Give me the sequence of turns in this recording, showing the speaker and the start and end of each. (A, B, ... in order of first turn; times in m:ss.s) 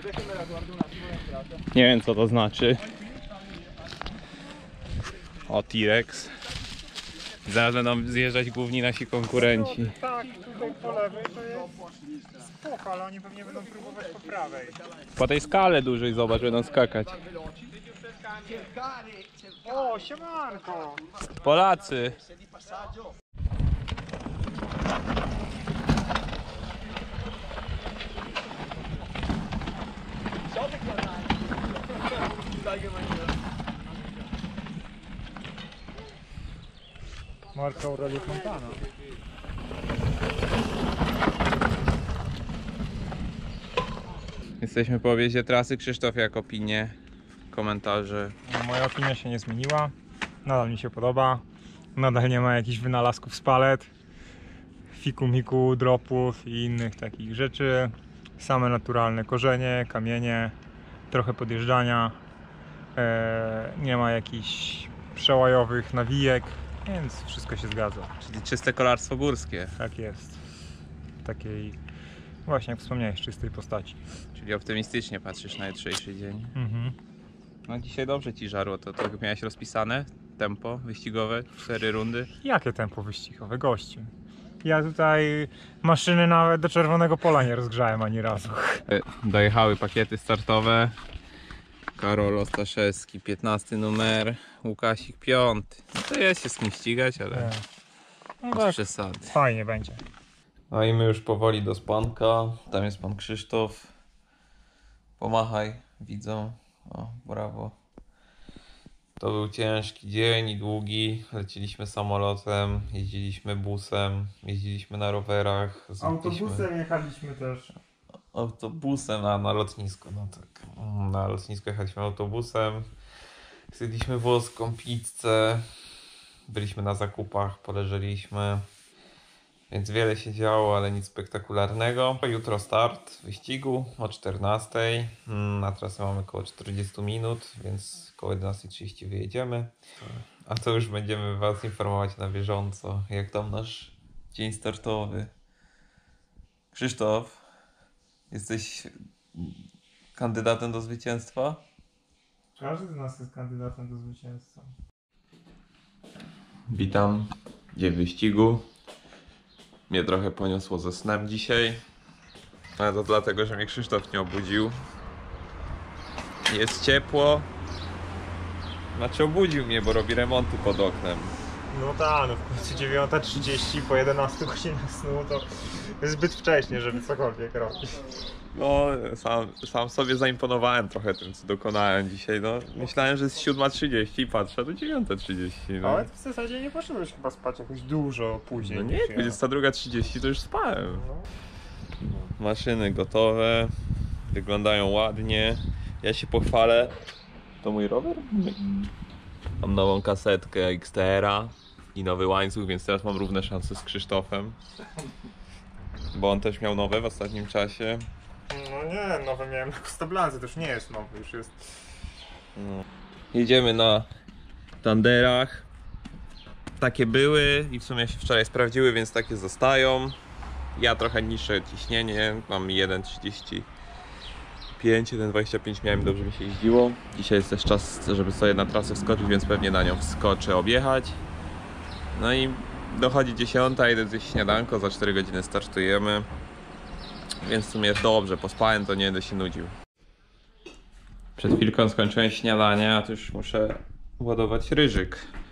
0:01.7-0:02.8 A
0:05.5-0:06.3 A
0:07.5-0:09.9 A
0:09.3-0:11.7 B
0:12.6-0:14.8 B
0:15.2-0:17.2 A
0:19.6-0:21.0 B
0:21.4-0:22.2 A
0:37.5-0:38.8 B
0:44.6-0:47.0 A
0:47.5-0:48.3 A
0:48.5-0:49.9 B
0:50.4-0:51.4 B
0:52.0-0:53.9 B
0:54.9-1:00.6 B
1:01.1-1:02.2 B
1:03.0-1:08.1 B
1:08.2-1:09.7 A
1:09.8-1:10.4 B
1:11.2-1:11.8 B
1:12.5-1:14.0 B
1:14.4-1:16.5 A
1:16.6-1:17.0 B
1:17.7-1:22.3 A
1:22.4-1:24.1 B
1:24.6-1:28.8 B
1:28.9-1:31.0 A
1:32.0-1:37.4 A
1:37.3-1:37.6 B
1:38.4-1:40.0 B
1:38.6-1:39.2 A
1:40.7-1:43.9 A
1:45.2-1:47.8 A
1:49.2-1:56.6 A
1:56.0-1:57.8 B
1:58.3-2:02.9 A
2:03.7-2:05.6 A
2:06.5-2:08.6 A
2:09.7-2:25.3 A
2:26.7-2:27.4 A
2:28.3-2:29.6 A
2:30.2-2:31.6 A
2:32.6-2:34.7 B
2:36.7-2:38.6 A
2:39.9-2:41.8 A
2:42.8-2:44.7 A
2:46.5-2:47.5 A
2:49.0-2:51.4 A
2:51.7-2:58.0 B
2:58.6-3:06.0 A
3:05.8-3:09.4 B
3:08.6-3:11.0 A
3:12.4-3:13.7 A
3:14.3-3:17.0 A
3:17.6-3:18.9 A
3:19.6-3:24.6 A
3:26.1-3:28.0 A
3:28.5-3:31.7 B
3:32.6-3:34.1 A
3:34.8-3:35.6 A
3:36.8-3:40.2 A
3:40.8-3:43.7 A
3:44.8-3:51.2 A
3:52.2-3:56.3 A
3:57.4-3:59.7 A
4:01.4-4:05.3 A